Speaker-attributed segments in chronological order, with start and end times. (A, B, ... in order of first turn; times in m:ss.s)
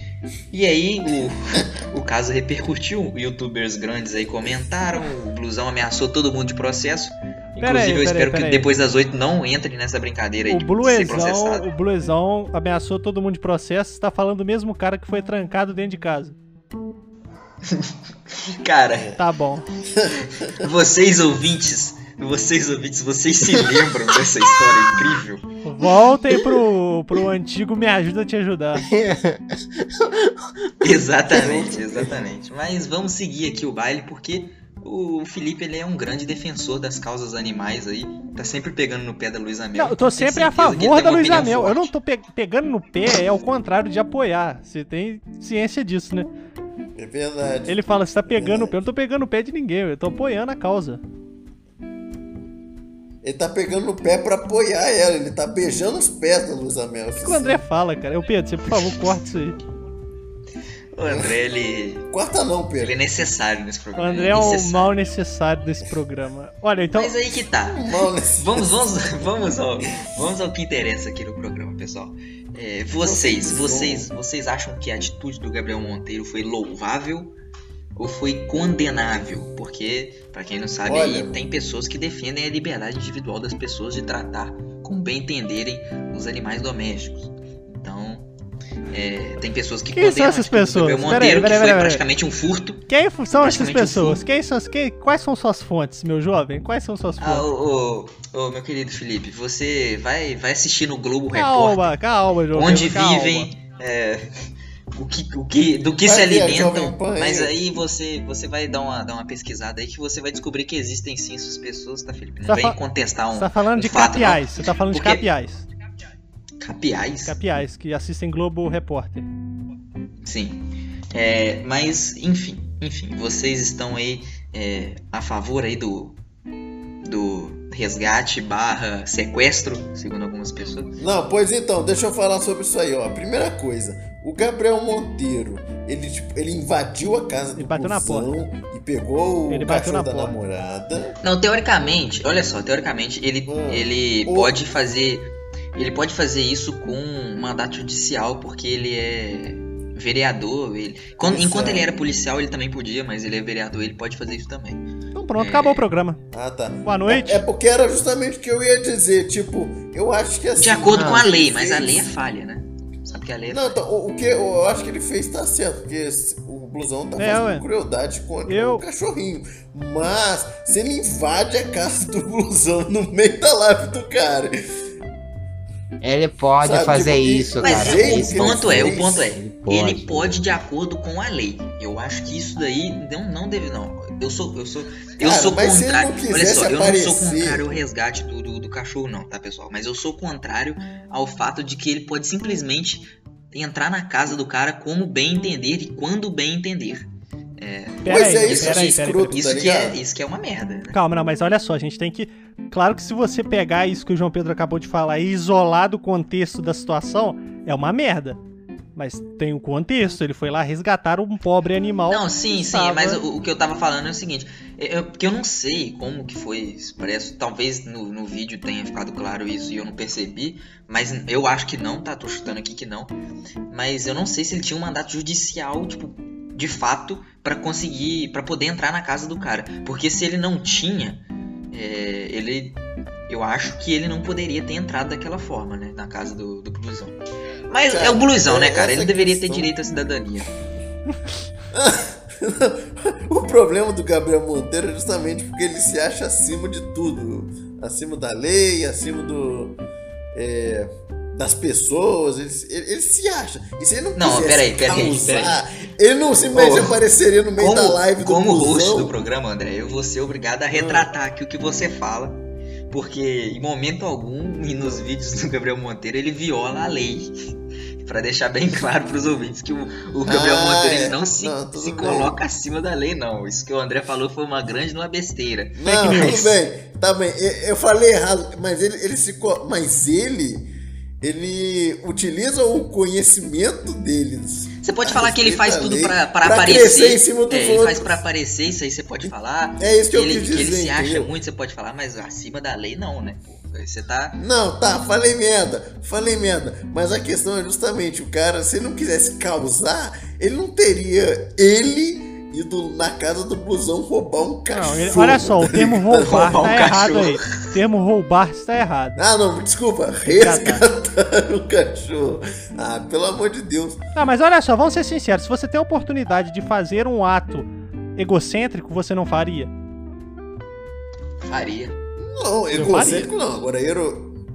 0:00.5-0:11.6 A
0:07.6-0:08.7 B
0:10.4-0:16.4 B
0:18.6-0:19.1 A
0:18.9-0:19.2 C
0:19.2-0:19.7 B
0:19.9-0:20.3 C
0:20.4-0:25.5 A
0:25.6-0:28.9 B
0:28.9-0:30.8 D
0:30.8-0:41.9 A
0:31.3-0:32.2 C
0:39.7-0:46.3 B
0:47.0-0:48.7 C
0:47.7-0:51.0 B
0:53.2-0:57.6 C
0:57.2-0:59.6 B
1:00.9-1:02.0 A
1:02.1-1:02.9 C
1:02.8-1:04.9 A
1:04.0-1:07.1 B
1:06.9-1:17.3 A
1:07.7-1:09.0 C
1:13.0-1:14.1 C
1:18.0-1:28.3 A
1:20.8-1:21.3 C
1:28.9-1:34.2 A
1:29.9-1:32.0 B
1:32.9-1:37.5 B
1:37.2-1:42.0 A
1:41.3-1:43.5 B
1:42.5-1:44.2 A
1:44.9-1:55.3 A
1:46.0-1:47.6 C
1:52.4-1:52.8 B
1:53.3-1:55.6 B
1:56.6-1:57.5 A
1:57.2-1:59.3 B
2:00.2-2:06.2 A
2:07.0-2:10.9 A
2:11.0-2:21.2 C
2:17.6-2:18.3 B
2:19.5-2:20.3 B
2:21.2-2:34.8 A
2:23.5-2:24.5 C
2:31.2-2:31.9 C
2:35.1-2:36.2 B
2:35.4-2:35.9 A
2:36.3-2:42.1 C
2:36.8-2:37.4 B
2:40.6-2:43.8 A
2:40.9-2:41.2 D
2:43.5-2:54.5 C
2:47.2-2:47.6 B
2:48.5-2:48.8 B
2:56.0-3:00.4 D
2:56.6-2:59.3 C
2:57.6-3:21.0 A
3:05.2-3:07.7 C
3:18.0-3:19.4 B
3:18.0-3:20.0 C
3:20.9-3:28.4 B
3:28.9-3:33.2 B
3:32.1-3:43.1 A
3:43.7-3:57.2 A
3:57.7-4:00.5 A
3:57.9-3:59.7 C
4:01.7-4:09.8 C
4:10.3-4:19.2 C
4:14.1-4:15.6 A
4:16.5-4:17.0 A
4:17.6-4:27.3 A
4:20.7-4:21.1 C
4:28.0-4:36.5 A
4:30.2-4:32.3 C
4:35.8-4:40.7 C
4:35.9-4:36.4 B
4:41.2-4:48.2 C
4:44.8-4:54.4 A
4:49.2-4:51.3 C
4:54.4-5:06.8 C
5:04.7-5:09.2 B
5:06.2-5:07.5 A
5:09.2-5:14.0 C
5:10.3-5:10.8 B
5:14.1-5:19.7 B
5:21.4-5:21.9 A
5:22.2-5:24.4 C
5:22.7-5:23.3 B